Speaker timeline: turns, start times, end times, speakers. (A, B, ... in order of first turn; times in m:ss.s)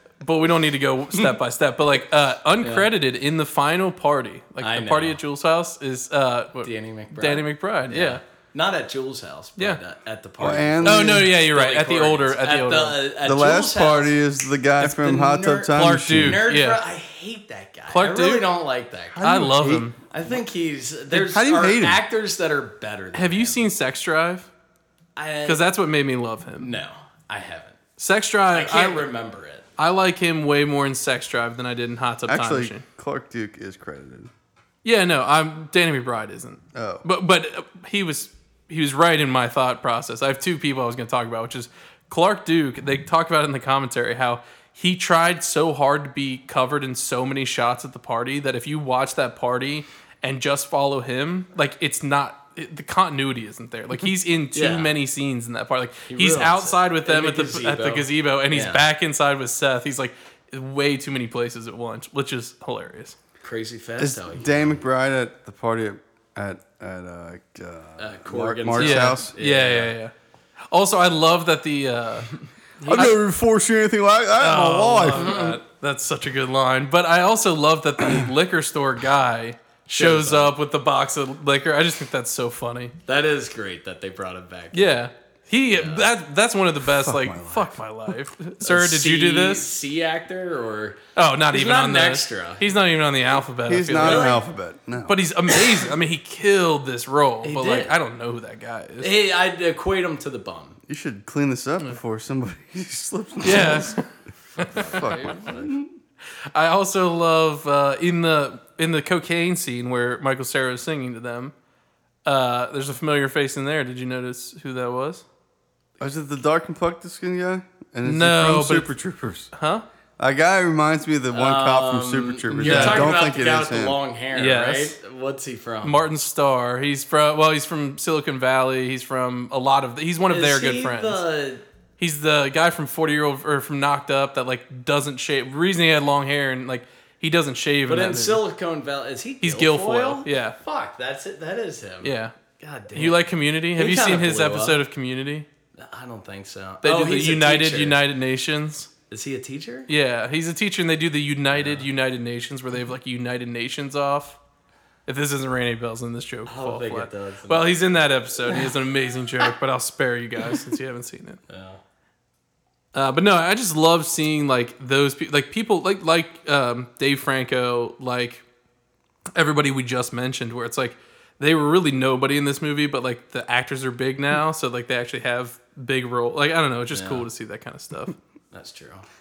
0:00.2-0:08.2 A
0:02.6-0:02.9 B
0:04.6-0:05.2 B
0:06.6-0:14.2 B
0:10.4-0:11.3 C
0:10.8-0:13.0 A
0:13.2-0:16.4 C
0:14.8-0:19.2 B
0:15.7-0:16.8 A
0:17.9-0:18.5 A
0:19.1-0:19.9 C
0:19.2-0:20.0 A
0:20.1-0:23.6 B
0:21.1-0:22.0 C
0:23.1-0:24.5 A
0:25.2-0:25.6 B
0:25.4-0:26.7 A
0:26.6-0:27.8 B
0:28.0-0:29.1 A
0:28.5-0:29.6 B
0:29.8-0:32.8 A
0:32.3-0:34.3 C
0:34.8-1:03.2 A
0:36.8-0:37.0 C
0:54.5-0:54.9 B
0:56.1-0:58.8 B
1:03.4-1:04.8 B
1:04.0-1:09.3 C
1:08.0-1:10.0 B
1:08.8-1:10.1 A
1:10.7-1:12.4 A
1:12.8-1:13.1 B
1:12.8-1:15.5 C
1:12.9-1:13.2 A
1:14.4-1:23.0 A
1:15.1-1:15.6 B
1:19.9-1:20.5 B
1:23.1-1:25.0 B
1:24.7-1:29.7 A
1:25.7-1:26.1 B
1:26.8-1:27.8 C
1:28.6-1:32.7 B
1:31.2-1:34.4 A
1:33.7-1:35.2 C
1:33.9-1:34.4 B
1:35.1-1:39.1 A
1:37.4-1:38.0 B
1:39.0-1:40.8 B
1:40.9-1:44.0 C
1:43.4-1:45.3 A
1:44.7-1:45.7 C
1:44.8-1:45.9 B
1:46.5-1:51.5 A
1:52.2-1:55.2 A
1:56.0-1:59.5 C
1:58.0-1:58.9 A
1:59.5-1:59.8 A
2:00.2-2:04.0 C
2:01.3-2:06.1 B
2:02.6-2:03.1 A
2:04.4-2:05.0 A
2:05.8-2:11.2 A
2:10.3-2:11.6 B
2:12.0-2:18.4 A
2:17.9-2:23.2 B
2:19.4-2:20.6 A
2:22.0-2:22.4 A
2:22.9-2:25.5 A
2:23.8-2:24.8 B
2:25.8-2:28.0 B
2:26.8-2:28.9 A
2:29.1-2:29.9 B
2:29.9-2:34.4 A
2:31.6-2:31.8 B
2:35.1-2:41.4 A
2:36.5-2:37.9 B
2:38.4-2:38.7 B
2:41.5-2:41.8 B
2:42.9-2:48.4 A
2:49.4-2:58.2 A
2:56.9-2:57.3 B
2:58.5-2:59.1 B